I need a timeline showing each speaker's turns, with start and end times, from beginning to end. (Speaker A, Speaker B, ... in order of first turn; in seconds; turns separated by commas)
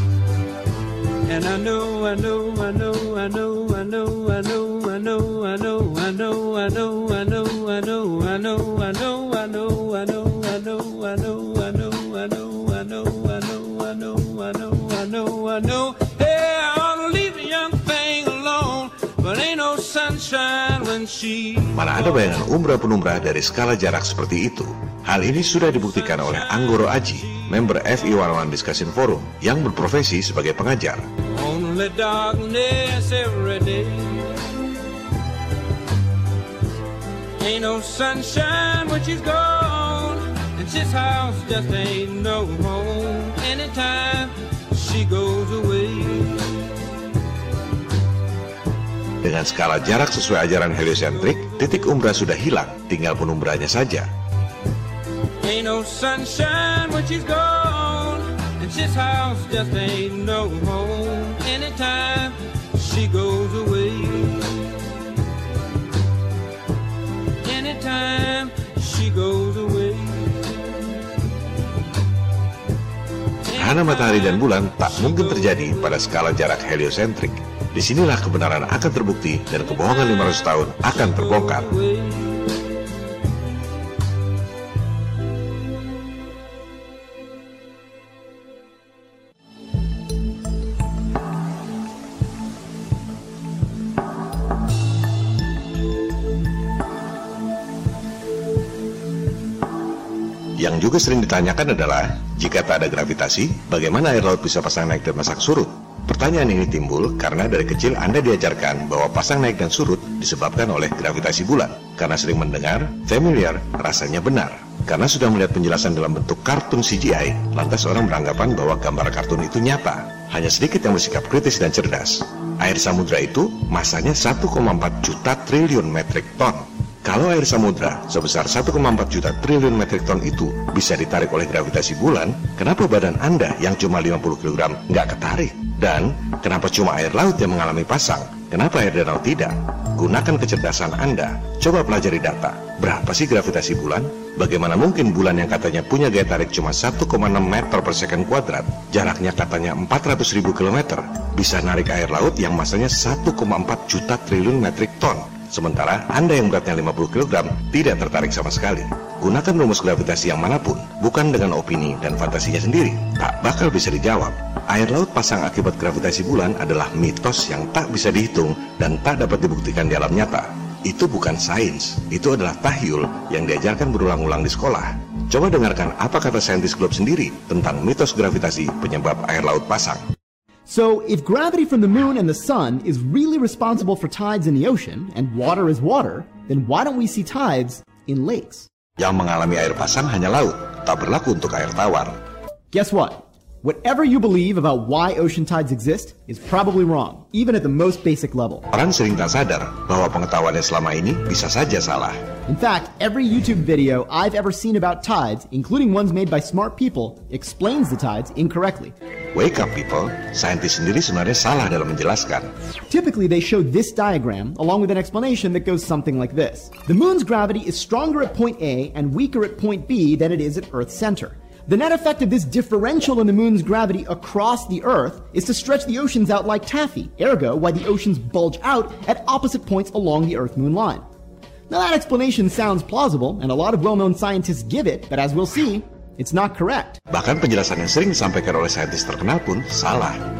Speaker A: 1.3-22.4, Speaker B: 21.7-31.0, Speaker A: 25.4-28.3, Speaker A: 31.3-34.4, Speaker A: 37.4-46.8, Speaker B: 49.2-54.1, Speaker A: 50.7-52.2, Speaker A: 55.4-64.8, Speaker A: 67.4-70.6, Speaker A: 73.5-76.2, Speaker B: 73.6-81.7, Speaker A: 80.9-82.4, Speaker B: 100.6-180.1, Speaker C: 180.7-188.7, Speaker B: 189.0-192.2, Speaker C: 192.7-198.6, Speaker B: 198.7-202.2, Speaker C: 202.5-208.9, Speaker B: 209.3-212.5, Speaker C: 212.9-231.0, Speaker C: 231.7-237.0, Speaker B: 237.1-240.2